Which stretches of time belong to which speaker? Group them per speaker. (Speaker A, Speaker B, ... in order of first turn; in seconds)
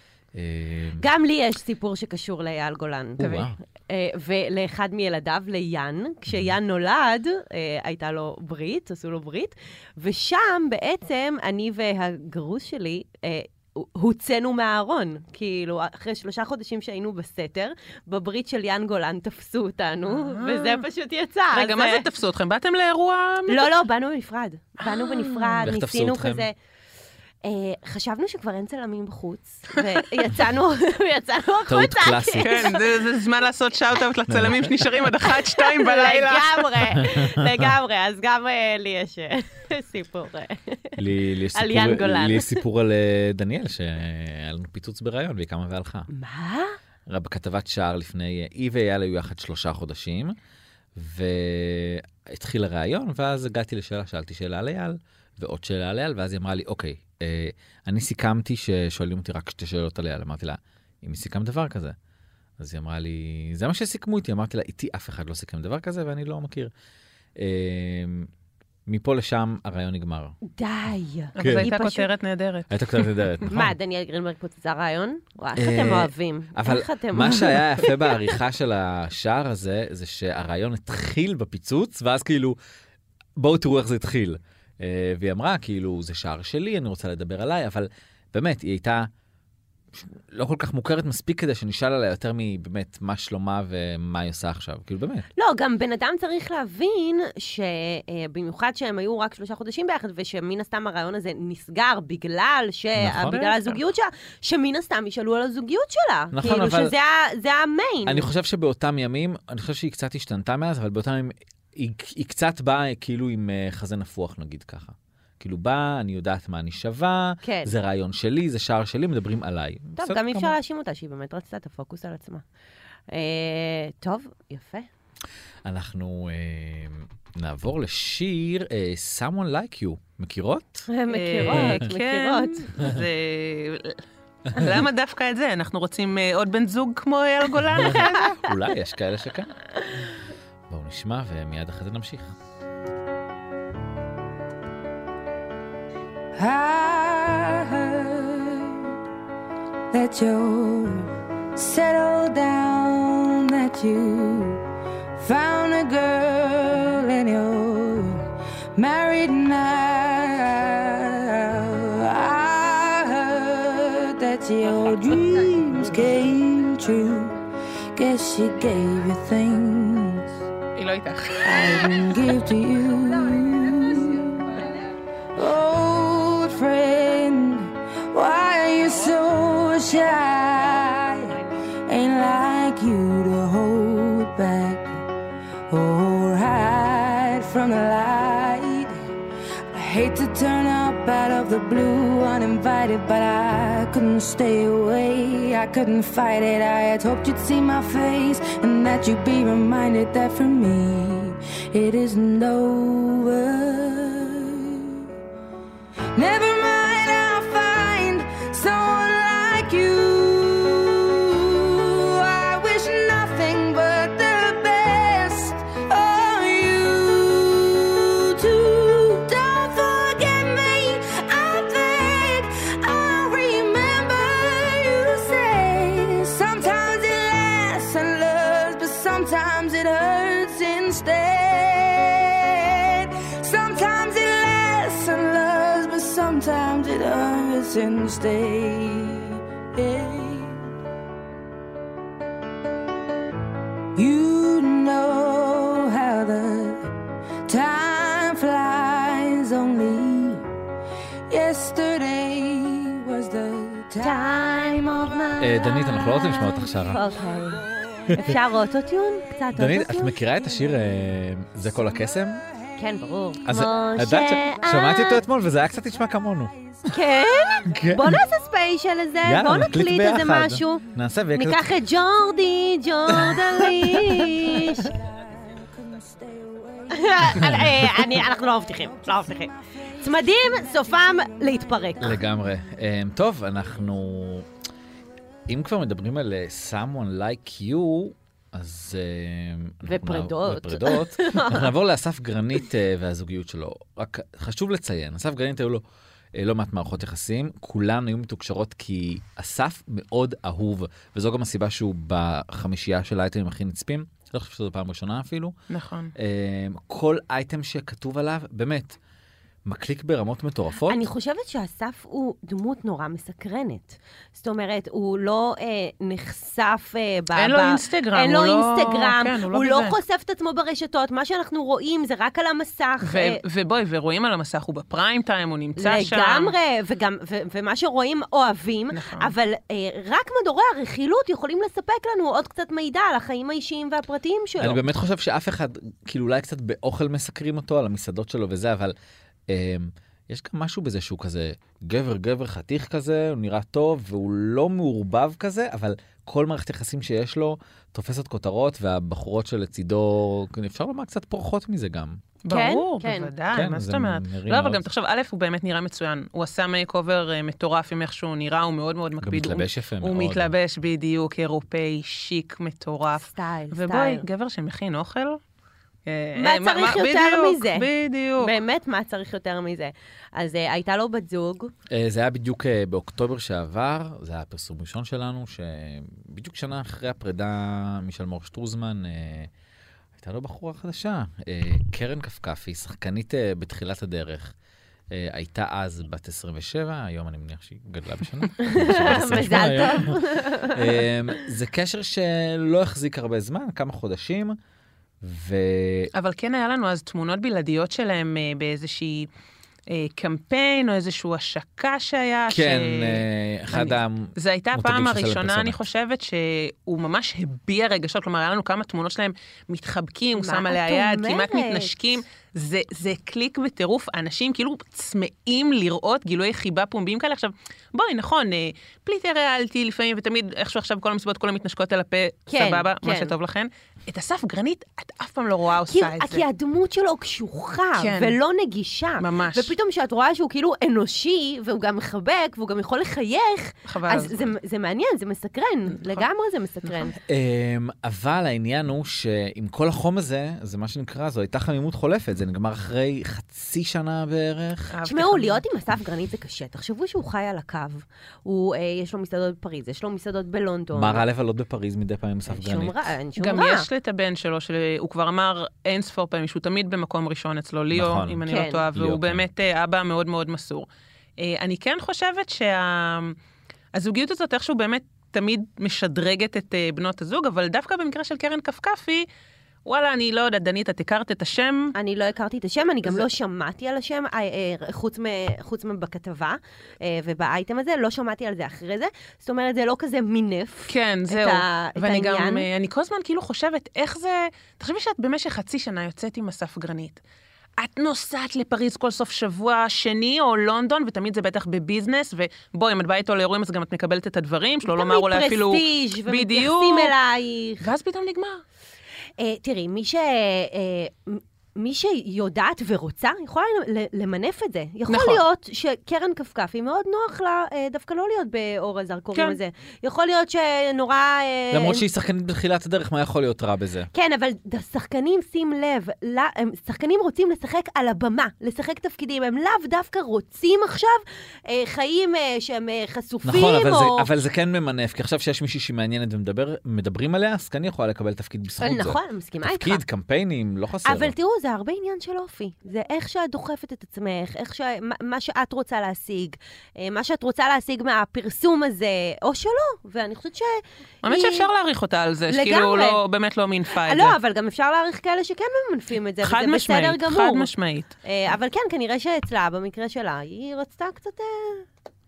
Speaker A: 0.3-1.0, 3.2-3.6, 25.6-26.4, 31.7-32.7, 34.3-34.6, 37.0-37.5, 41.0-46.1, 47.1-50.4, 51.0-62.0, 62.6-66.7, 67.3-68.3, 68.8-70.3, 71.4-71.7, 72.7-73.7, 75.5-82.6, 83.4-89.1, 89.9-95.2, 103.0-103.6, 106.3-106.9, 108.0-120.5, 125.6-130.9, 131.4-131.9, 134.5-134.7, 137.8-139.5, 140.7-142.3, 255.4-257.0, 258.1-258.4, 259.5-262.4, 263.4-266.5, 267.7-268.2, 269.2-271.6, 273.1-274.7, 282.0-284.5, 285.5-295.8, 296.3-305.5, 306.1-309.0, 309.6-311.0, 334.6-338.9, 339.5-352.2, 353.5-354.8, 359.2-360.5, 371.9-379.5, 380.1-384.5, 385.1-394.6, 395.2-396.1, 402.5-405.8, 437.3-444.9, 450.9-453.0, 457.9-459.4, 511.7-514.1, 523.4-531.3
Speaker B: 1.0-22.1, 23.5-26.5, 27.4-32.8, 35.3-41.0, 41.5-42.6, 46.1-46.8, 70.4-72.1, 73.5-78.3, 95.4-108.3, 117.4-117.7, 120.0-122.4, 123.1-124.9, 130.9-132.7, 137.9-138.3, 254.0-260.2, 262.8-265.2, 266.9-270.8, 271.3-274.9, 276.9-282.2, 289.9-291.7, 310.9-323.4, 325.8-334.8, 352.5-353.3, 363.2-364.2, 366.4-367.9, 368.4-371.7, 388.6-391.0, 410.4-411.9, 422.5-423.3, 425.9-437.1, 445.1-451.2, 452.5-453.9, 458.5-458.9, 471.9-482.7, 494.8-497.9, 499.4-512.0, 514.1-524.3, 528.8-530.0, 531.0-541.7, 542.5-543.2, 544.0-547.7, 548.2-551.8
Speaker C: 3.2-3.5, 20.1-20.8, 21.5-23.7, 24.9-25.6, 32.4-37.0, 71.3-73.1, 131.1-134.0, 134.5-138.3, 170.8-172.0, 305.7-306.1, 317.4-320.0, 323.0-326.5, 328.9-329.3, 352.4-365.4, 366.1-368.5, 396.1-399.3, 399.9-426.4, 428.0-428.4, 429.2-429.7, 433.9-434.5, 436.0-436.2, 436.9-437.1, 444.9-445.6, 453.4-460.9, 461.4-463.4, 463.9-469.3, 469.8-471.9, 480.9-487.2, 487.8-497.1, 497.8-498.6, 505.1-505.4, 541.2-544.4, 546.4-548.1
Speaker D: 146.3-148.9, 149.9-154.6, 155.2-167.4, 167.9-170.3, 171.4-174.7, 175.3-185.0, 185.7-189.0, 189.7-205.0, 206.1-240.7, 243.9-246.9, 247.5-250.5, 251.3-254.7, 274.0-282.0